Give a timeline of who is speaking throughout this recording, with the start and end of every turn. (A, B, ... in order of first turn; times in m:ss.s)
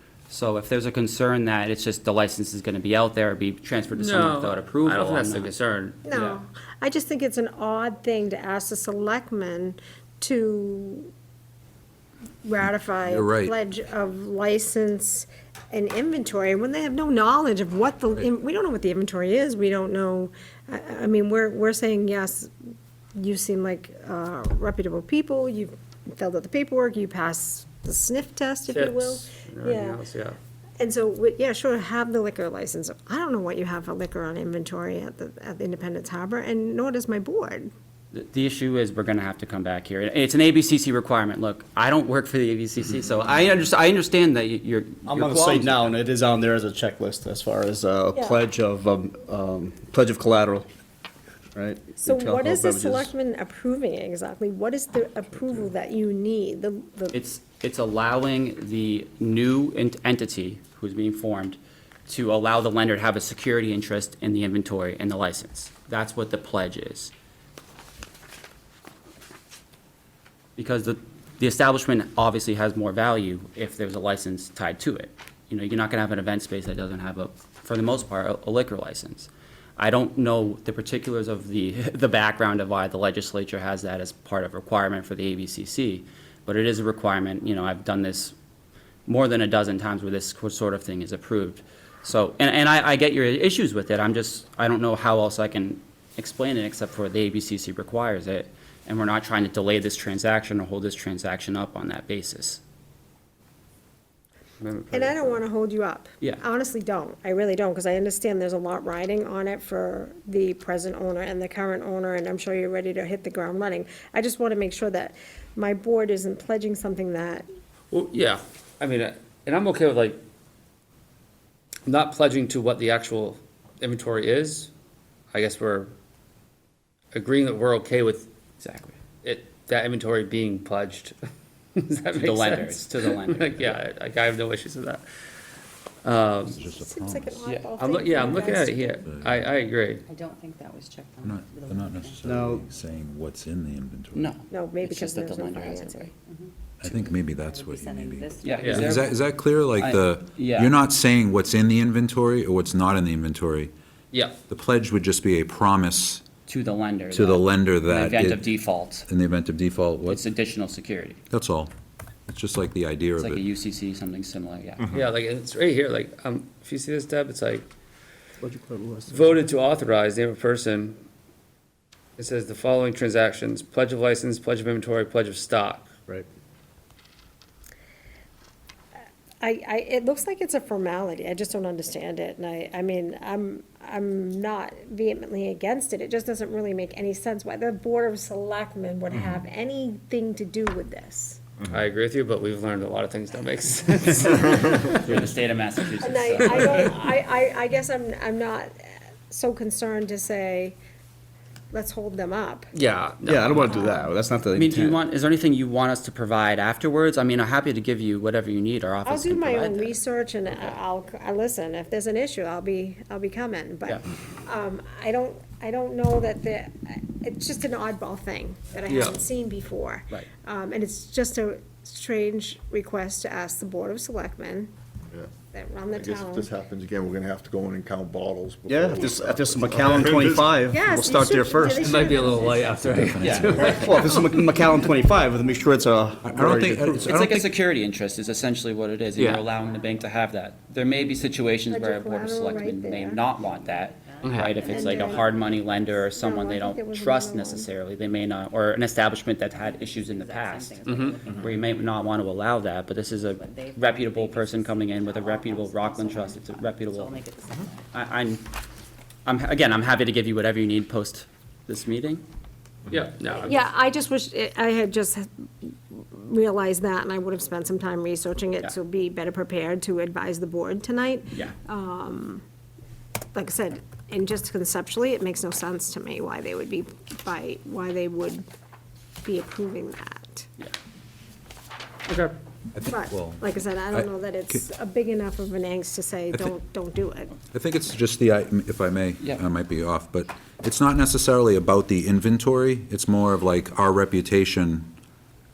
0:00.3-0:05.5 A
0:03.9-0:06.4 B
0:06.0-0:11.1 C
0:12.4-0:22.5 C
0:13.0-0:13.5 D
0:23.2-0:30.0 C
0:28.7-0:30.4 B
0:30.8-0:37.7 C
0:38.1-0:45.9 A
0:45.1-0:50.7 E
0:48.1-0:48.4 C
0:51.5-0:53.1 E
0:52.0-0:57.2 C
0:57.1-1:07.1 A
1:10.6-1:28.4 A
1:29.1-1:42.6 A
1:44.6-1:45.4 B
1:44.9-1:57.5 C
1:57.9-2:00.2 B
2:01.9-2:04.7 B
2:05.3-2:05.9 B
2:07.1-2:08.3 B
2:08.6-2:09.0 A
2:09.2-2:11.2 B
2:11.8-2:15.0 B
2:12.1-2:13.8 A
2:16.0-2:16.6 B
2:16.5-2:17.5 D
2:16.7-2:19.0 C
2:17.5-2:20.0 B
2:19.0-2:19.4 D
2:20.1-2:22.4 F
2:21.2-2:24.3 D
2:22.2-2:22.6 E
2:24.2-2:26.1 A
2:24.5-2:26.1 C
2:26.8-2:33.7 D
2:27.3-2:29.2 F
2:28.4-2:29.1 A
2:28.6-2:28.9 B
2:29.8-2:30.7 A
2:34.1-2:34.4 B
2:34.5-2:36.2 D
2:36.5-2:39.1 A
2:37.1-2:38.5 D
2:39.0-2:40.2 D
2:40.1-2:41.2 A
2:41.3-2:41.7 D
2:42.3-2:43.4 D
2:43.2-2:45.0 A
2:44.9-2:47.7 B
2:48.4-2:49.3 E
2:49.1-2:51.0 B
2:52.2-2:55.9 B
2:59.4-3:11.4 C
3:11.7-3:15.3 B
3:14.9-3:16.9 A
3:16.0-3:18.7 C
3:16.4-3:16.9 B
3:19.3-3:20.8 C
3:21.7-3:22.7 C
3:22.7-3:23.9 B
3:23.3-3:25.0 E
3:23.6-3:24.1 C
3:24.5-3:29.9 A
3:29.0-3:44.7 C
3:30.5-3:30.8 A
3:38.9-3:39.2 B
3:45.5-3:46.5 C
3:45.9-3:50.6 G
3:48.7-3:52.5 E
3:50.6-3:52.9 C
3:51.8-3:54.4 B
3:52.8-3:54.0 D
3:53.2-3:57.1 E
3:53.6-3:56.1 F
3:53.6-3:54.2 C
3:56.2-3:57.5 D
3:57.1-4:17.2 A
3:59.2-3:59.5 B
3:59.5-4:00.2 F
4:01.7-4:03.2 C
4:03.4-4:06.1 F
4:04.2-4:04.6 B
4:04.6-4:05.3 C
4:06.1-4:07.7 C
4:09.5-4:12.2 F
4:10.9-4:11.2 B
4:13.2-4:17.9 F
4:17.9-4:18.5 A
4:19.2-4:22.2 A
4:22.9-4:23.6 B
4:23.4-4:32.4 C
4:33.3-4:38.4 C
4:39.2-4:40.5 C
4:42.1-4:42.3 B
4:42.8-4:44.6 D
4:42.9-4:47.4 C
4:47.5-4:54.9 D